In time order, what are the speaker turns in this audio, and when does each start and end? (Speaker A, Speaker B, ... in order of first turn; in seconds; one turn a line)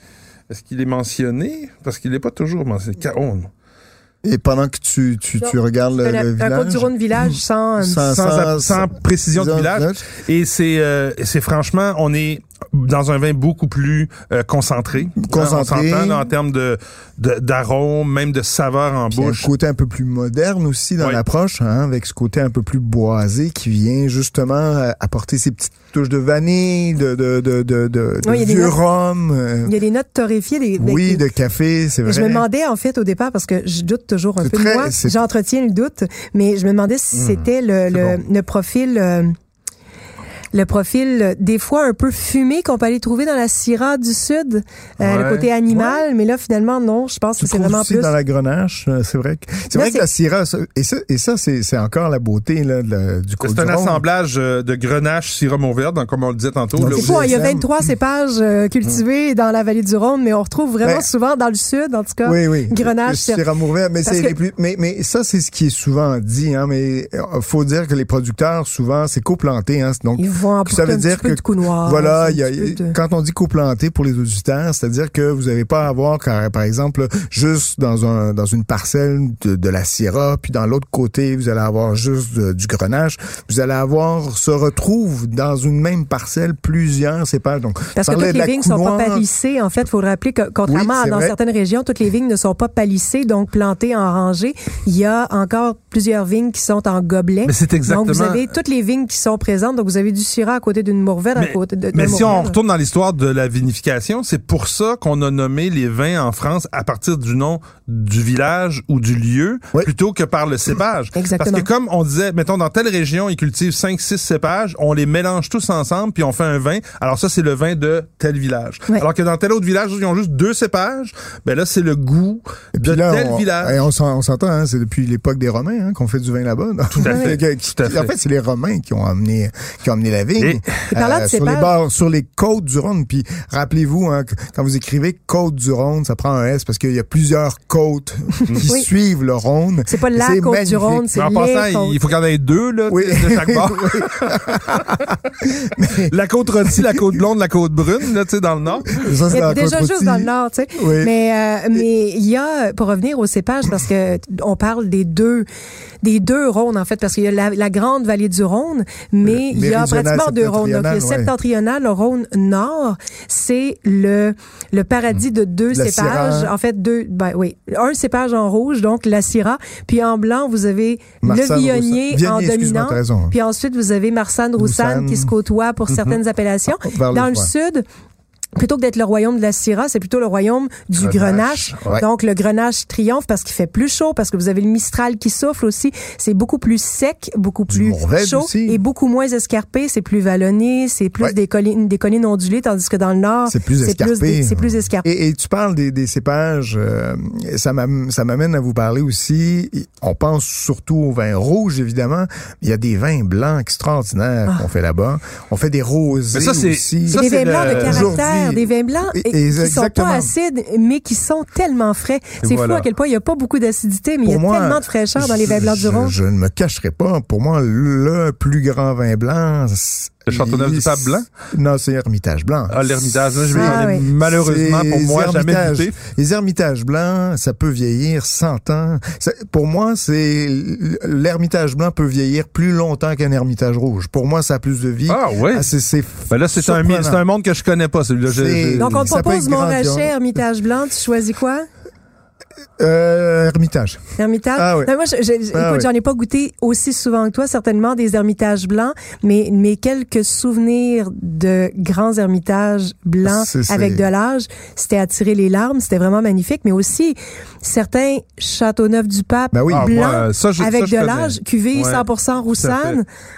Speaker A: 0.5-3.5
Speaker B: 4.2-10.1
Speaker C: 5.4-8.0
Speaker A: 8.1-19.5
Speaker B: 15.2-16.3
Speaker B: 19.1-29.7
Speaker C: 28.2-28.8
Speaker C: 29.6-31.3
Speaker B: 30.8-32.5
Speaker C: 32.0-39.3
Speaker B: 34.4-35.2
Speaker A: 37.1-38.2
Speaker C: 40.5-48.1
Speaker A: 45.0-45.5
Speaker B: 45.7-46.0
Speaker B: 47.4-54.0
Speaker C: 49.7-50.1
Speaker A: 53.4-57.4
Speaker B: 56.8-57.9
Speaker C: 56.9-63.5
Speaker B: 60.8-61.1
Speaker B: 62.2-89.3
Speaker C: 64.0-64.3
Speaker C: 70.2-73.0
Speaker C: 88.0-102.6
Speaker B: 90.7-91.4
Speaker A: 97.5-98.5
Speaker A: 101.4-123.9
Speaker B: 102.1-102.4
Speaker C: 111.2-111.7
Speaker B: 122.7-141.1
Speaker A: 127.0-128.1
Speaker C: 127.0-127.3
Speaker A: 130.4-130.7
Speaker C: 130.9-131.7
Speaker C: 138.6-138.9
Speaker C: 139.9-142.0
Speaker A: 141.2-145.1
Speaker B: 142.9-146.1
Speaker A: 146.1-149.1
Speaker B: 146.8-147.1
Speaker B: 148.9-151.1
Speaker C: 149.3-155.5
Speaker C: 156.0-177.8
Speaker B: 159.2-161.3
Speaker B: 165.7-166.5
Speaker B: 171.2-173.3
Speaker B: 174.6-175.3
Speaker A: 175.9-176.2
Speaker B: 176.7-177.5
Speaker C: 178.6-195.1
Speaker A: 181.0-182.0
Speaker B: 187.7-188.8
Speaker B: 193.5-210.3
Speaker A: 206.3-208.2
Speaker C: 207.1-216.2
Speaker A: 212.4-212.9
Speaker B: 214.2-237.2
Speaker A: 220.3-221.3
Speaker A: 222.7-226.0
Speaker C: 223.5-224.1
Speaker A: 235.1-235.7
Speaker A: 236.3-239.0
Speaker B: 238.3-240.1
Speaker C: 238.8-241.6
Speaker B: 242.8-244.0
Speaker C: 244.2-263.1
Speaker B: 244.6-244.9
Speaker B: 245.5-245.9
Speaker B: 253.2-254.1
Speaker B: 259.5-260.1
Speaker A: 259.7-263.0